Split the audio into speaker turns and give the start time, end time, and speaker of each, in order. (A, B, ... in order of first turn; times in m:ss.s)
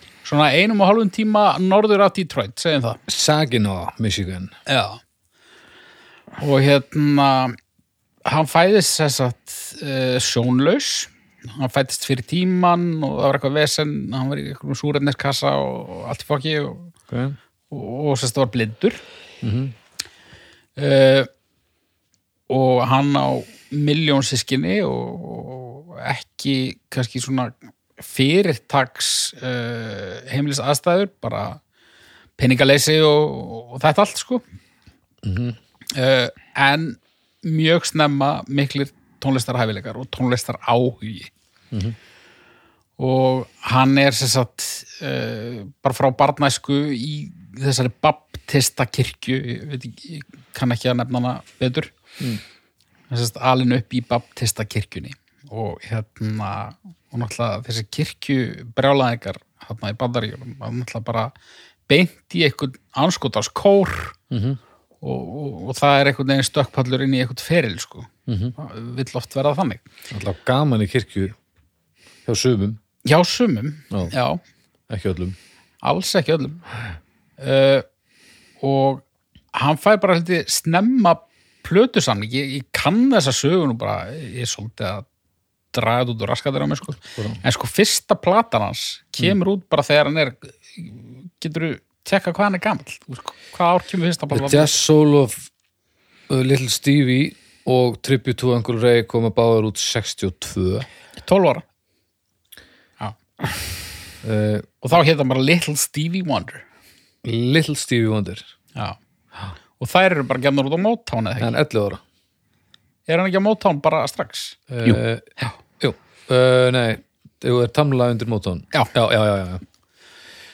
0:00.2-0:03.0 A
0:03.1-0:04.5 B
0:04.7-0:05.0 A
0:06.4-0:07.6 A
0:08.2-0:16.9 A
0:17.1-0:17.4 B
0:17.7-0:19.0 A
0:19.4-0:19.7 B
0:20.8-0:21.3 A
0:22.5-0:31.6 A
0:32.4-0:34.4 A
0:35.2-0:35.6 B
0:35.9-0:41.3 A
0:41.7-0:42.0 B
0:43.0-0:51.9 A
0:53.1-1:01.3 A
1:01.9-1:04.2 A
1:04.3-1:04.6 B
1:05.0-1:09.8 A
1:08.3-1:08.5 B
1:10.1-1:11.4 B
1:12.2-1:12.8 B
1:13.0-1:14.4 A
1:14.9-1:15.4 B
1:15.8-1:16.6 A
1:17.4-1:17.8 A
1:18.6-1:19.0 A
1:19.5-1:25.0 A
1:25.7-1:34.7 A
1:27.0-1:27.4 B
1:34.3-1:35.5 B
1:36.3-1:40.9 B
1:41.2-1:41.6 A
1:44.2-1:44.7 B
1:44.8-1:46.6 A
1:47.2-1:48.5 B
1:49.8-1:51.5 A
1:51.4-1:52.0 B
1:53.1-1:54.6 A
1:54.7-1:59.6 B